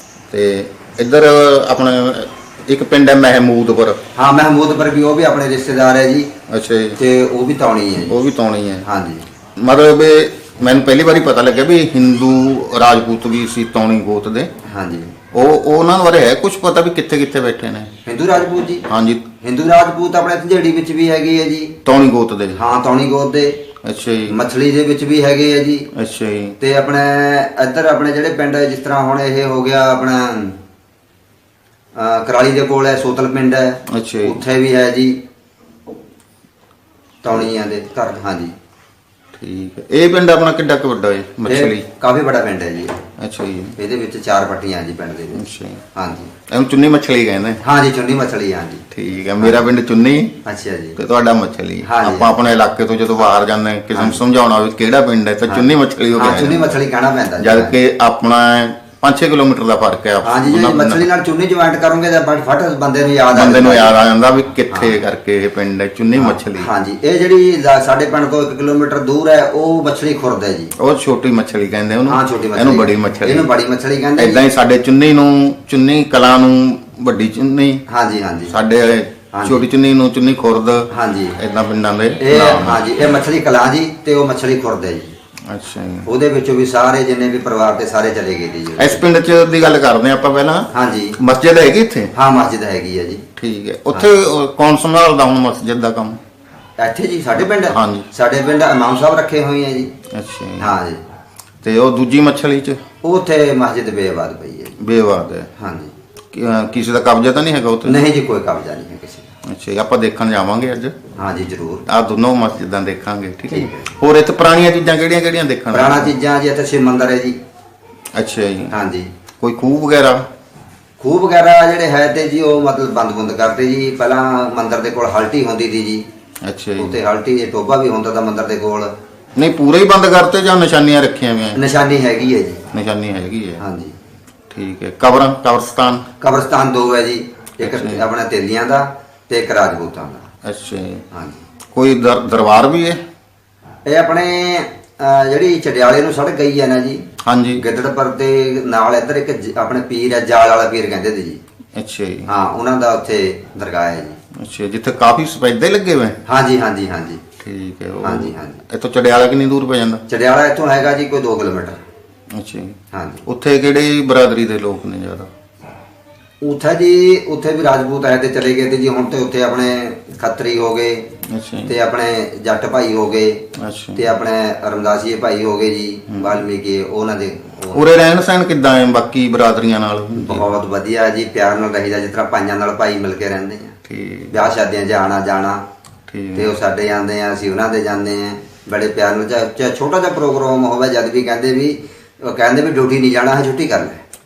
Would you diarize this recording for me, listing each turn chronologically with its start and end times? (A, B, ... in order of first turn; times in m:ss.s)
0:00.3-0:04.0 A
0:04.2-0:06.3 B
0:06.5-0:07.0 A
0:07.0-0:08.2 B
0:08.0-0:08.9 A
0:08.8-0:09.3 B
0:09.6-0:14.5 A
0:14.6-0:15.2 B
0:15.3-0:17.9 A
0:18.0-0:18.9 B
0:18.9-0:19.3 A
0:19.4-0:21.8 B
0:21.9-0:22.6 A
0:22.5-0:23.6 B
0:23.8-0:24.4 A
0:24.3-0:25.9 B
0:26.0-0:26.6 A
0:26.6-0:30.6 B
0:32.0-0:35.2 B
0:33.9-0:34.4 A
0:37.2-0:38.6 B
0:39.4-0:41.8 A
0:41.4-0:43.0 B
0:43.2-0:43.8 A
0:43.8-0:45.4 B
0:45.3-0:45.8 A
0:46.0-0:46.4 B
0:46.5-0:47.6 A
0:47.6-0:48.8 B
0:48.9-0:50.4 A
0:49.4-0:49.7 B
0:50.4-0:51.0 B
0:51.0-0:56.8 A
0:51.8-0:52.3 B
0:53.9-0:54.2 B
0:55.5-0:57.8 B
0:57.4-1:01.1 A
1:00.2-1:04.0 B
1:03.3-1:06.7 A
1:04.7-1:05.0 B
1:06.2-1:10.7 B
1:10.8-1:13.5 A
1:12.1-1:14.5 B
1:14.2-1:17.8 A
1:17.9-1:18.6 B
1:18.5-1:22.8 A
1:19.3-1:19.7 B
1:20.9-1:21.4 B
1:22.2-1:25.1 B
1:25.5-1:26.1 A
1:26.0-1:29.1 B
1:28.8-1:30.7 A
1:30.7-1:31.2 B
1:31.2-1:32.1 A
1:32.1-1:33.2 B
1:33.4-1:36.2 A
1:33.9-1:34.2 B
1:36.8-1:39.9 B
1:37.4-1:38.1 A
1:40.1-1:40.7 A
1:40.6-1:41.0 B
1:41.6-1:42.8 A
1:43.0-1:44.8 B
1:44.8-1:45.5 A
1:45.6-1:46.0 B
1:46.3-1:48.0 A
1:47.8-1:49.3 B
1:49.5-1:50.9 A
1:51.2-1:51.8 B
1:51.9-1:56.2 A
1:53.5-1:54.0 B
1:55.7-1:57.4 B
1:58.2-1:58.8 A
1:58.7-1:59.1 B
1:59.4-2:00.2 A
2:01.0-2:06.1 B
2:06.4-2:07.0 A
2:06.8-2:08.9 B
2:09.4-2:11.6 A
2:11.5-2:12.6 B
2:12.7-2:13.6 A
2:13.6-2:14.0 B
2:14.5-2:16.1 A
2:16.2-2:20.3 B
2:17.6-2:18.0 A
2:20.4-2:21.0 A
2:21.1-2:21.4 B
2:21.7-2:23.0 A
2:23.9-2:31.4 B
2:27.2-2:27.6 A
2:31.8-2:32.3 A
2:32.3-2:34.2 B
2:34.4-2:36.2 A
2:36.3-2:37.3 B
2:37.4-2:40.0 A
2:38.0-2:38.6 B
2:40.1-2:41.8 B
2:42.3-2:45.3 A
2:42.9-2:43.2 B
2:46.4-2:51.1 B
2:51.3-2:51.7 A
2:51.7-2:57.9 B
2:53.6-2:54.0 A
2:56.1-2:56.4 A
2:57.7-3:00.6 A
3:00.2-3:03.8 B
3:03.9-3:04.4 A
3:04.3-3:05.6 B
3:06.1-3:06.5 A
3:06.3-3:14.0 B